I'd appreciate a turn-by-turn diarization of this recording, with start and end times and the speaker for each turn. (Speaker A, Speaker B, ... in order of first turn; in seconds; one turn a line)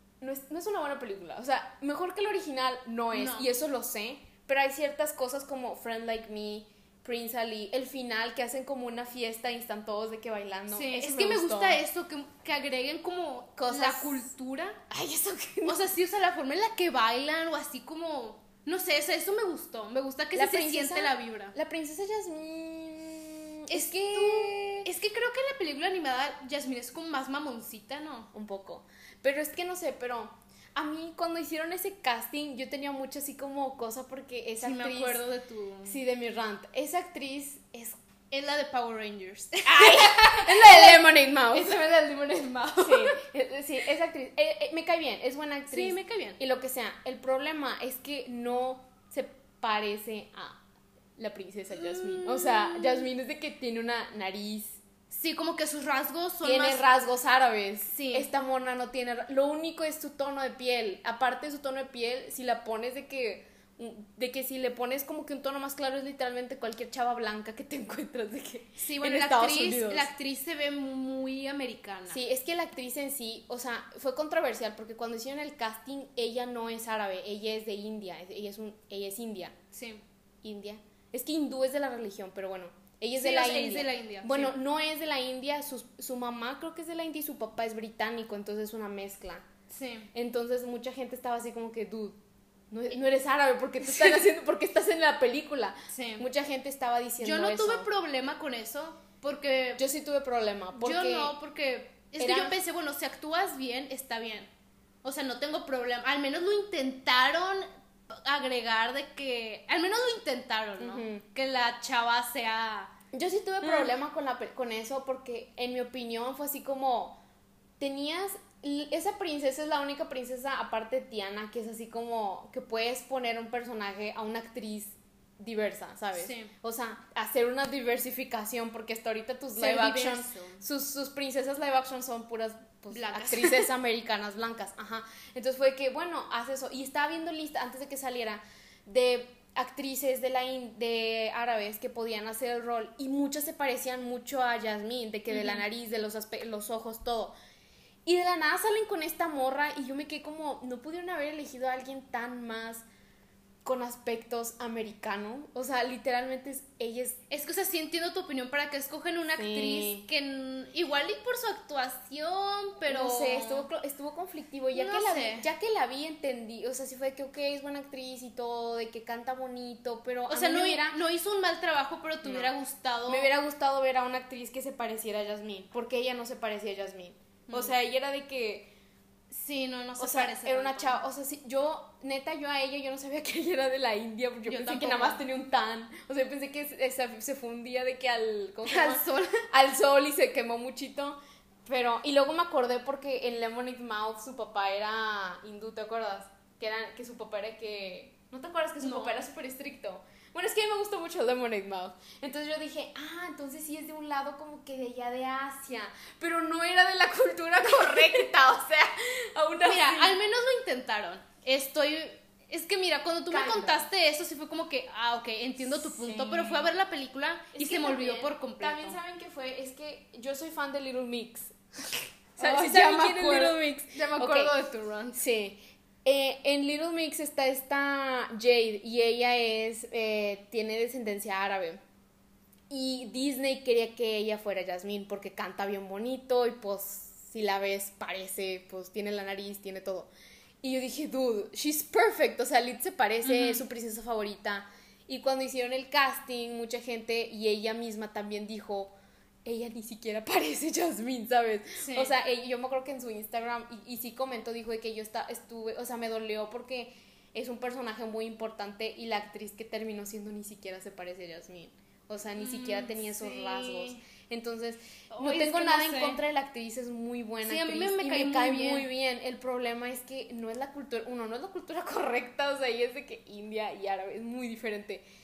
Speaker A: 0.2-11.8
Speaker B: 3.1-3.5
Speaker B: 10.7-14.8
Speaker A: 13.6-14.2
Speaker A: 14.9-15.8
Speaker B: 15.6-21.6
Speaker A: 20.4-24.9
Speaker B: 23.7-28.3
Speaker A: 28.3-35.2
Speaker B: 34.6-36.0
Speaker A: 35.9-38.0
Speaker B: 38.3-43.2
Speaker A: 39.6-41.8
Speaker A: 42.8-50.6
Speaker B: 45.7-46.4
Speaker A: 51.2-54.8
Speaker B: 51.7-53.1
Speaker B: 55.1-56.9
Speaker A: 56.4-70.1
Speaker B: 57.9-58.3
Speaker B: 68.8-72.2
Speaker A: 72.1-79.5
Speaker B: 79.7-80.0
Speaker A: 80.4-89.5
Speaker B: 83.2-84.5
Speaker B: 89.7-90.1
Speaker A: 90.1-92.2
Speaker A: 92.7-97.9
Speaker B: 95.9-96.3
Speaker B: 97.2-99.8
Speaker A: 99.8-101.3
Speaker B: 100.8-104.5
Speaker A: 102.2-102.6
Speaker B: 105.0-112.9
Speaker A: 110.8-111.2
Speaker A: 113.1-117.2
Speaker B: 113.6-113.9
Speaker A: 117.8-147.3
Speaker B: 126.2-126.5
Speaker B: 129.6-130.6
Speaker B: 132.9-133.7
Speaker B: 145.3-145.6
Speaker A: 148.1-152.8
Speaker A: 153.6-157.2
Speaker B: 157.3-163.7
Speaker A: 159.4-160.1
Speaker A: 162.9-171.0
Speaker B: 164.7-165.5
Speaker B: 170.3-173.3
Speaker A: 172.2-172.5
Speaker A: 173.1-178.7
Speaker B: 177.5-177.7
Speaker B: 179.3-181.0
Speaker A: 180.0-210.2
Speaker B: 184.5-185.2
Speaker B: 188.7-189.5
Speaker B: 198.8-199.2
Speaker B: 209.6-219.0
Speaker A: 213.3-213.8
Speaker A: 215.7-216.7
Speaker A: 217.5-224.6
Speaker B: 222.4-225.2
Speaker A: 225.1-231.8
Speaker A: 232.7-240.1
Speaker A: 240.6-275.1
Speaker B: 243.2-243.7
Speaker B: 251.8-252.1
Speaker B: 262.4-264.0
Speaker B: 265.1-266.2
Speaker B: 267.4-268.9